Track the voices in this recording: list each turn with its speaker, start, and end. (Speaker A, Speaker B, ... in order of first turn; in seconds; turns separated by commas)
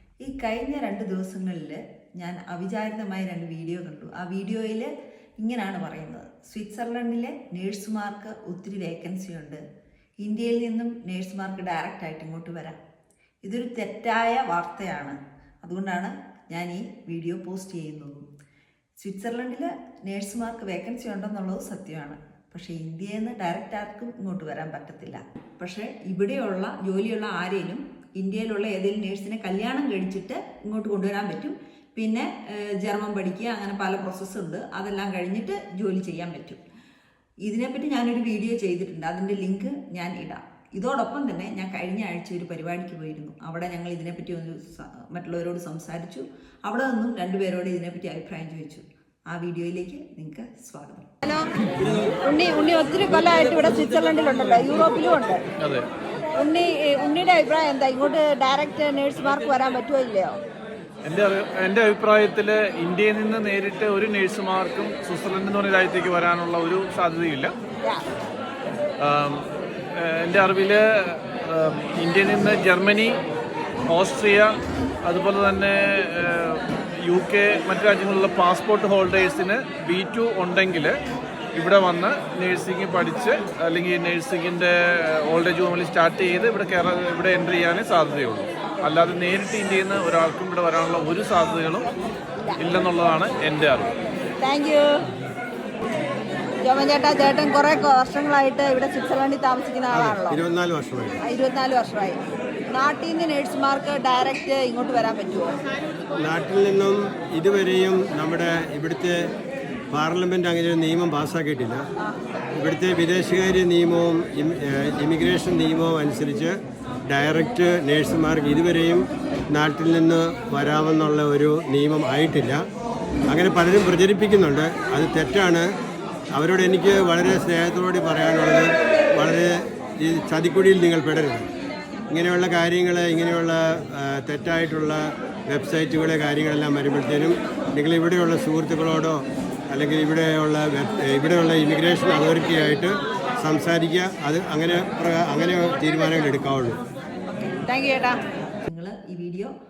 Speaker A: 0.2-9.6, Speaker A: 10.2-12.8, Speaker A: 13.4-18.3, Speaker A: 19.0-36.6, Speaker A: 37.4-51.1, Speaker B: 52.2-55.4, Speaker C: 55.6-55.9, Speaker B: 56.4-60.4, Speaker C: 61.0-67.5, Speaker C: 69.0-73.2, Speaker C: 73.9-81.0, Speaker C: 81.5-91.9, Speaker C: 92.6-93.9, Speaker B: 94.4-95.0, Speaker B: 96.6-100.4, Speaker D: 99.9-101.2, Speaker B: 101.2-102.2, Speaker B: 102.7-105.5, Speaker D: 106.2-109.2, Speaker D: 109.9-111.8, Speaker D: 112.5-122.6, Speaker D: 123.3-125.7, Speaker D: 126.3-131.5, Speaker D: 132.1-146.8, Speaker B: 147.5-148.2, Speaker A: 148.6-149.5